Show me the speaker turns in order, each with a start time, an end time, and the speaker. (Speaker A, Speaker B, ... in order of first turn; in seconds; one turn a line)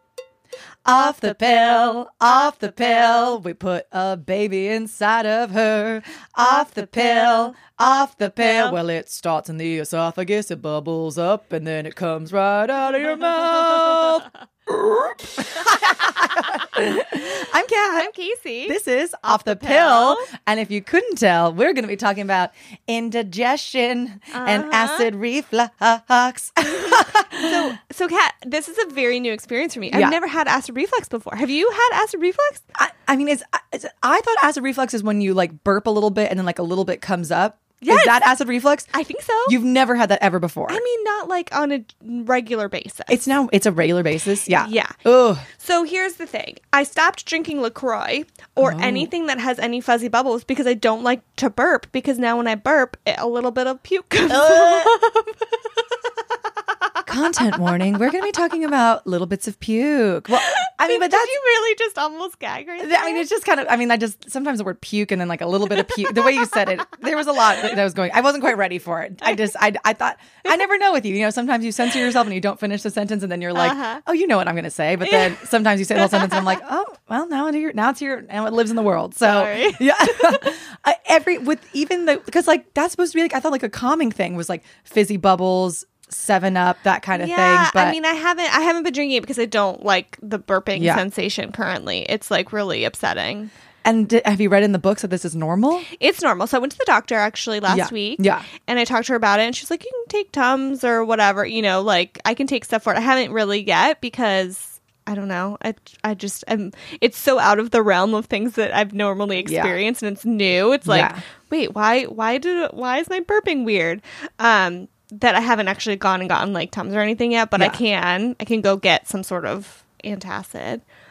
Speaker A: 0.8-18.1
Speaker B: 8.4-8.7
Speaker B: 18.0-18.8
Speaker A: 18.7-27.7
Speaker B: 19.3-20.3
Speaker B: 24.3-25.1
Speaker B: 26.7-32.6
Speaker A: 29.9-30.2
Speaker A: 32.8-38.9
Speaker B: 37.8-38.3
Speaker B: 38.9-39.6
Speaker A: 39.5-40.8
Speaker B: 40.7-43.2
Speaker A: 43.1-45.5
Speaker B: 44.5-45.0
Speaker B: 45.5-55.9
Speaker A: 48.6-49.1
Speaker A: 54.3-54.9
Speaker A: 57.1-61.4
Speaker B: 60.5-63.3
Speaker A: 62.8-88.0
Speaker B: 73.5-74.0
Speaker B: 75.0-75.4
Speaker B: 76.0-76.5
Speaker B: 79.2-80.5
Speaker B: 87.1-93.5
Speaker A: 90.8-91.0
Speaker A: 93.8-95.9
Speaker B: 95.9-120.8
Speaker A: 97.7-98.5
Speaker A: 109.4-109.8
Speaker A: 110.9-111.2